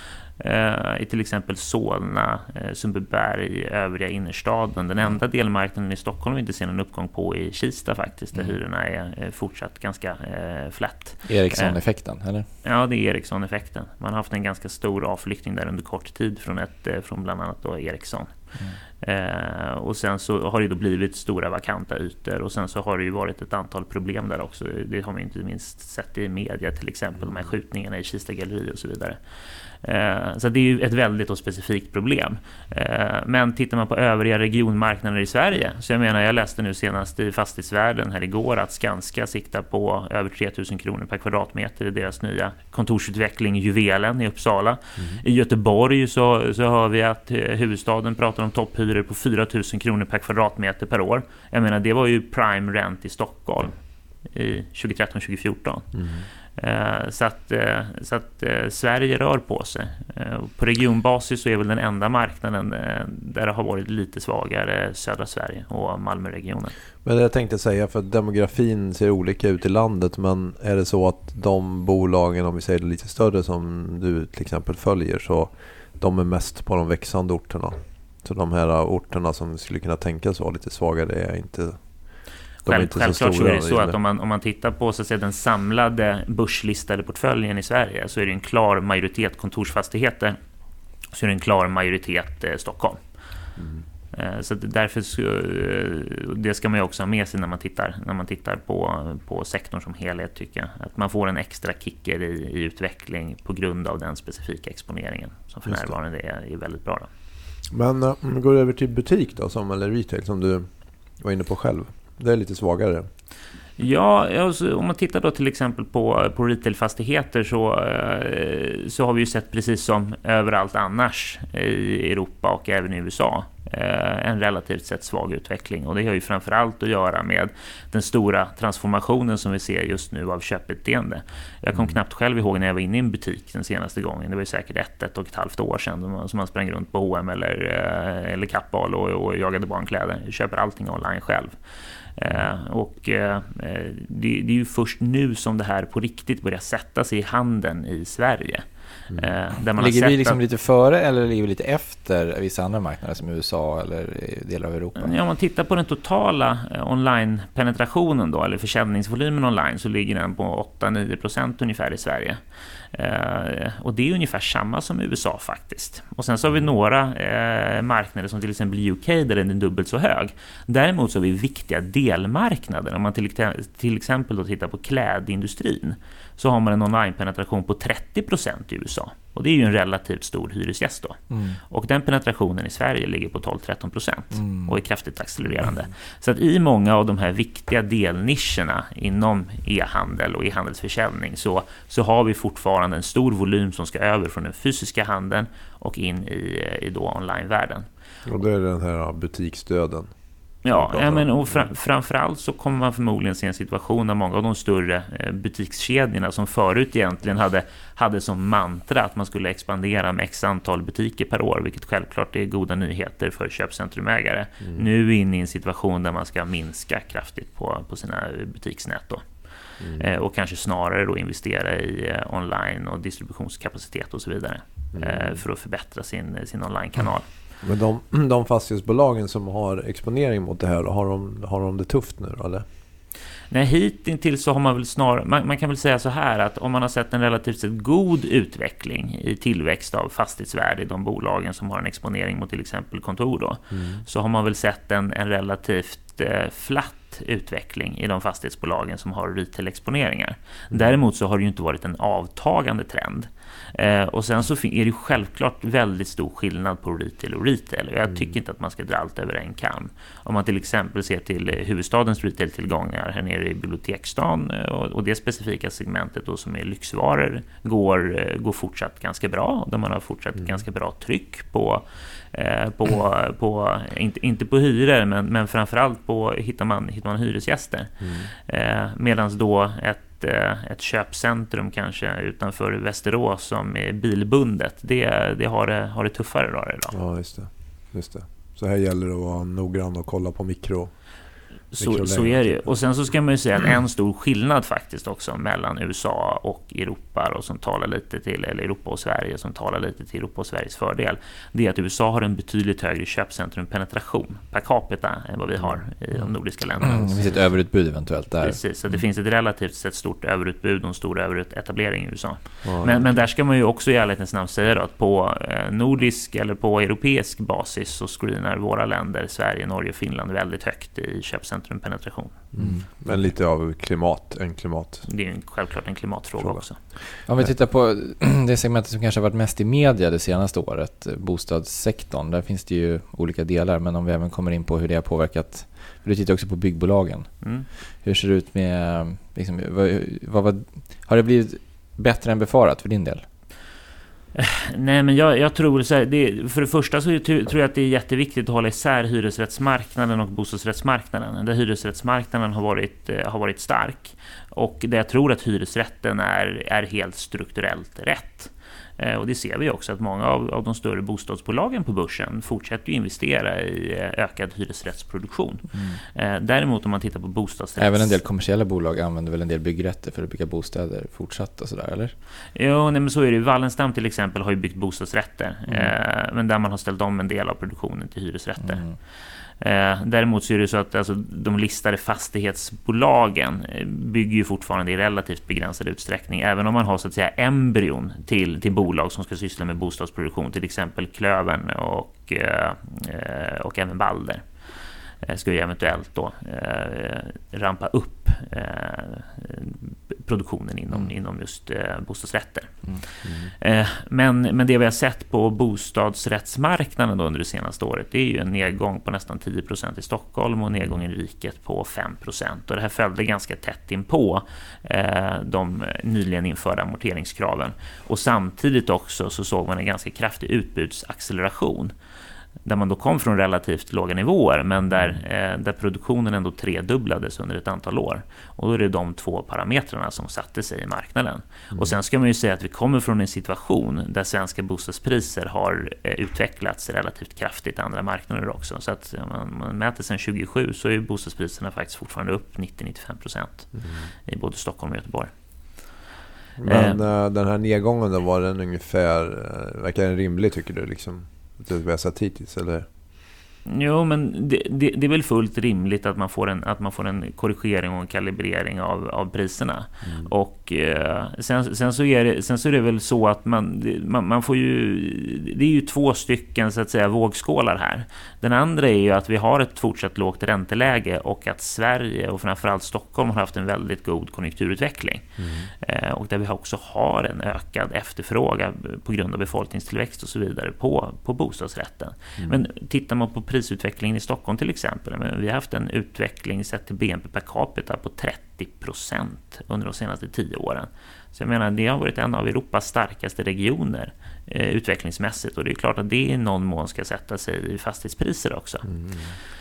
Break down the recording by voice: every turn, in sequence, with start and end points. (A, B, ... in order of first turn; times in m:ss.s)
0:00.4-0:11.8 A
0:11.3-0:12.5 B
0:12.6-0:29.2 A
0:29.8-0:53.8 A
0:45.0-0:45.2 C
0:54.3-0:56.0 A
0:55.9-0:56.3 C
0:56.6-1:06.8 A
1:07.0-1:21.8 C
1:22.6-1:30.4 A
1:22.7-1:24.0 C
1:31.1-1:33.0 A
1:33.6-1:33.9 C
1:34.1-1:47.1 A
1:45.7-1:46.0 C
1:47.7-1:53.1 C
1:53.8-2:21.6 A
2:22.2-2:30.4 A
2:29.8-2:35.1 B
2:35.0-2:42.4 A
2:42.9-3:17.9 A
3:01.3-3:01.6 B
3:04.3-3:04.7 B
3:18.2-3:20.1 C
3:20.6-3:39.3 A
3:20.7-3:21.7 C
3:39.8-3:40.1 C
3:40.0-3:47.3 A
3:44.9-3:45.4 C
3:47.6-3:52.6 C
3:53.5-4:47.0 A
4:03.7-4:04.0 C
4:38.0-4:38.3 C
4:46.9-4:50.9 C
4:51.7-5:07.5 A
4:51.8-4:52.8 C
5:05.6-5:05.8 C
5:06.8-5:08.6 B
5:08.4-5:22.5 A
5:12.6-5:13.1 C
5:22.5-5:25.1 C
5:25.1-5:26.8 A
5:27.3-5:43.3 B
5:37.4-5:37.7 A
5:44.4-6:08.2 A
6:05.7-6:06.0 B
6:07.8-6:12.1 B
6:12.6-6:19.0 A
6:15.7-6:16.0 B
6:18.6-6:19.0 B
6:19.6-6:34.7 A
6:35.2-7:01.9 A
6:43.2-6:43.5 C
7:02.6-7:25.9 A
7:04.9-7:05.2 C
7:23.8-7:24.1 C
7:26.6-7:32.9 C
7:26.6-7:27.0 A
7:33.7-7:55.3 A
7:40.0-7:40.3 C
7:55.4-7:55.7 C
7:55.8-8:19.0 A
8:18.9-8:19.3 C